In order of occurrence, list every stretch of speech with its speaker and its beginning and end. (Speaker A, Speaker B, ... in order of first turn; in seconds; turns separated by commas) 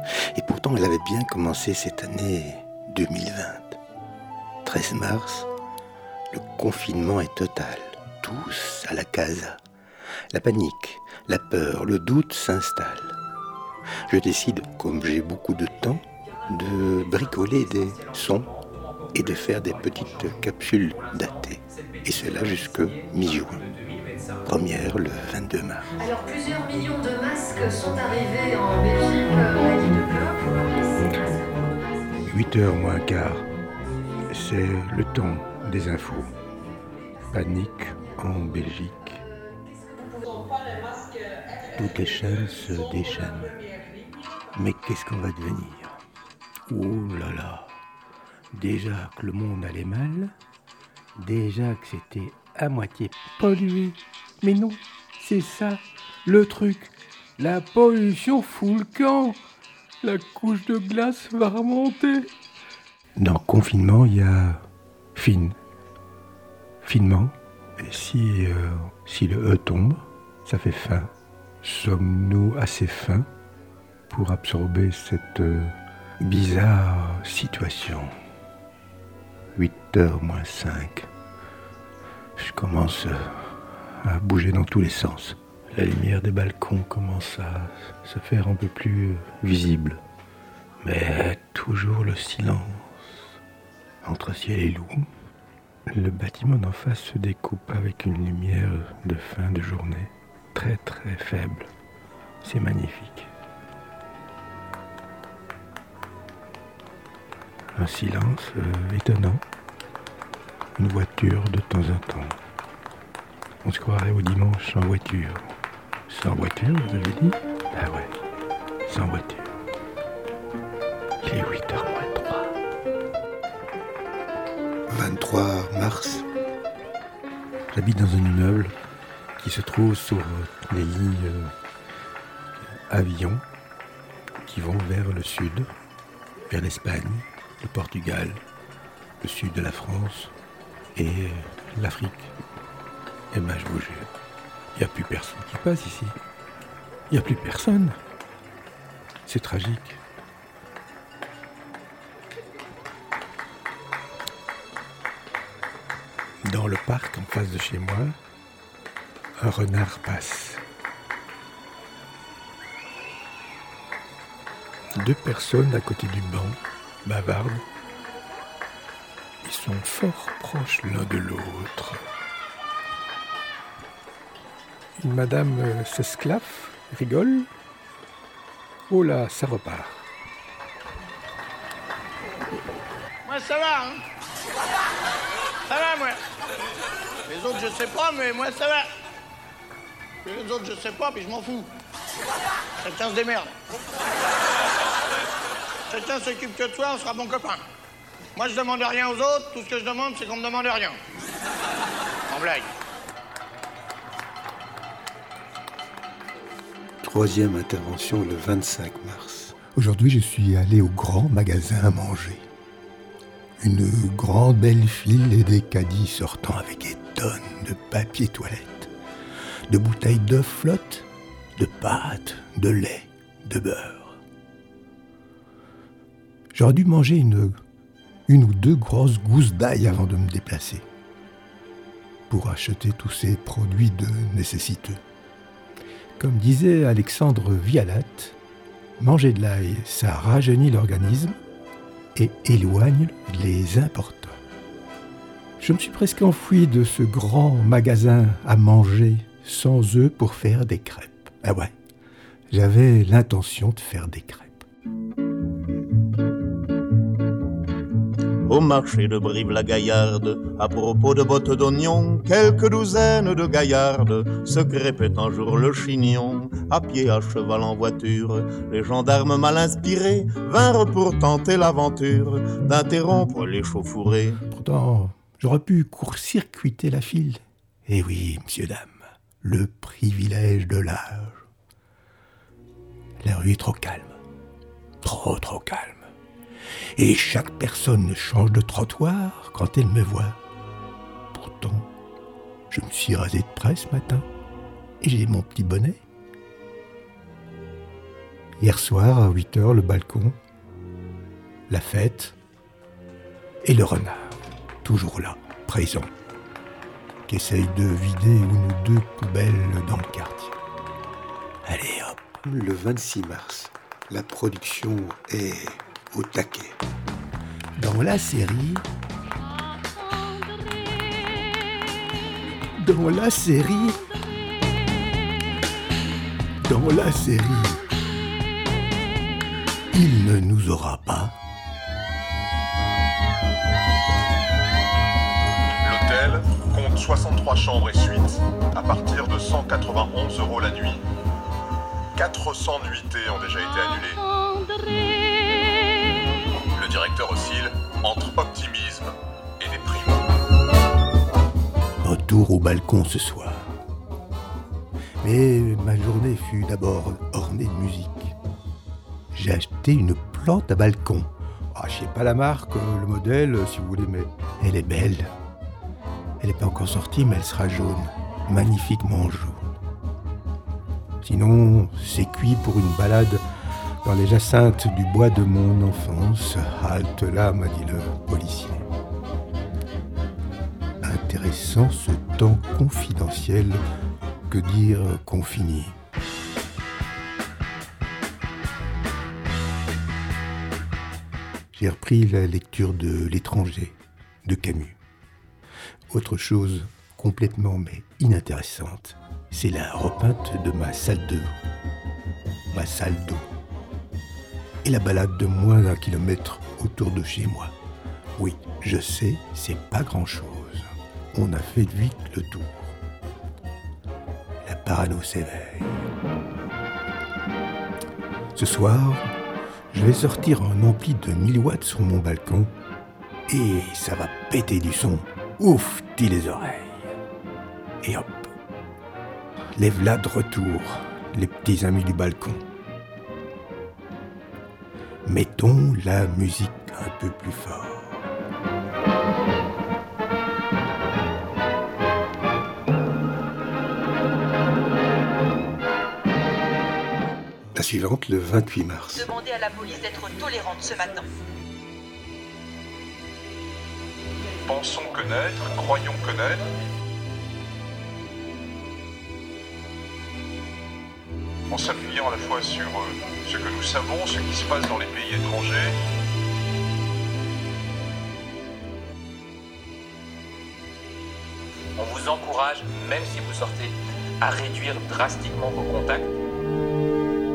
Speaker A: 0.3-3.8, Speaker A: 4.6-5.5, Speaker A: 6.3-9.6, Speaker A: 10.3-13.2, Speaker A: 14.1-18.5, Speaker B: 17.0-20.3, Speaker A: 19.1-23.6, Speaker B: 21.1-24.4, Speaker A: 24.4-25.9, Speaker C: 26.0-32.5, Speaker A: 32.3-33.5, Speaker C: 33.8-34.3, Speaker A: 34.3-36.3, Speaker C: 35.5-38.5, Speaker A: 37.3-39.2, Speaker C: 39.1-40.6, Speaker A: 41.8-43.6, Speaker A: 44.5-46.0, Speaker A: 46.7-47.8, Speaker A: 48.5-50.3, Speaker A: 51.2-59.4, Speaker A: 60.0-62.3, Speaker A: 63.2-64.6, Speaker A: 65.1-65.5, Speaker A: 66.8-71.1, Speaker A: 71.6-73.3, Speaker A: 74.1-78.1, Speaker A: 79.5-81.1, Speaker A: 82.3-90.0, Speaker A: 90.8-93.0, Speaker A: 94.0-95.1, Speaker A: 95.9-101.7, Speaker A: 102.4-103.3, Speaker A: 107.8-109.4, Speaker A: 110.8-112.4, Speaker A: 113.6-115.5, Speaker A: 116.1-118.2, Speaker A: 118.9-119.5, Speaker A: 121.2-122.5, Speaker A: 124.9-126.2, Speaker A: 127.7-128.7, Speaker A: 129.4-131.5, Speaker A: 132.6-133.4, Speaker A: 134.4-135.7, Speaker A: 136.5-138.4, Speaker A: 139.2-140.3, Speaker A: 140.9-142.3, Speaker A: 143.3-144.1, Speaker A: 144.8-146.2, Speaker A: 147.1-148.0, Speaker A: 149.2-150.0, Speaker A: 156.4-158.2, Speaker A: 159.4-160.6, Speaker A: 165.0-167.6, Speaker A: 169.4-172.0, Speaker A: 175.0-177.5, Speaker A: 178.9-180.0, Speaker D: 183.2-184.0, Speaker D: 185.7-186.2, Speaker D: 187.3-188.9, Speaker D: 190.2-191.7, Speaker D: 192.8-193.5, Speaker D: 195.9-197.6, Speaker D: 198.4-201.0, Speaker D: 202.3-202.7, Speaker A: 207.0-212.4, Speaker A: 213.6-218.9, Speaker A: 219.7-224.2, Speaker A: 226.5-227.6, Speaker A: 228.3-230.9, Speaker A: 232.3-235.0, Speaker A: 236.2-238.4, Speaker A: 239.0-241.4, Speaker A: 242.2-244.4, Speaker A: 245.6-251.7, Speaker A: 252.5-254.6, Speaker E: 258.4-274.4, Speaker A: 274.5-281.4, Speaker A: 283.2-284.2, Speaker A: 285.0-286.1, Speaker A: 286.9-290.4, Speaker A: 291.3-291.9, Speaker A: 292.7-294.2, Speaker A: 295.0-296.0, Speaker A: 298.6-300.4, Speaker A: 301.7-302.4, Speaker A: 303.6-306.1, Speaker A: 307.3-310.6, Speaker A: 311.6-316.8, Speaker A: 317.8-318.9, Speaker A: 322.8-324.0, Speaker A: 326.6-327.8, Speaker A: 329.9-331.4, Speaker F: 335.8-341.0, Speaker F: 342.2-344.2, Speaker F: 346.7-350.2, Speaker A: 352.0-353.7, Speaker A: 355.2-358.4, Speaker A: 359.3-365.3, Speaker A: 366.4-369.8, Speaker A: 371.2-373.4, Speaker A: 374.0-378.9, Speaker A: 381.0-383.8, Speaker A: 384.5-385.9, Speaker A: 391.7-395.0, Speaker A: 396.1-401.5, Speaker A: 402.7-403.5, Speaker A: 404.8-407.7, Speaker A: 408.4-412.9, Speaker A: 414.6-416.1, Speaker A: 418.6-419.3, Speaker A: 419.9-422.7, Speaker A: 423.5-427.2, Speaker A: 428.0-428.5, Speaker A: 429.8-432.6, Speaker A: 435.2-438.3, Speaker A: 447.7-449.3, Speaker G: 449.1-451.3, Speaker F: 454.7-456.7, Speaker F: 461.7-465.9, Speaker B: 471.9-476.3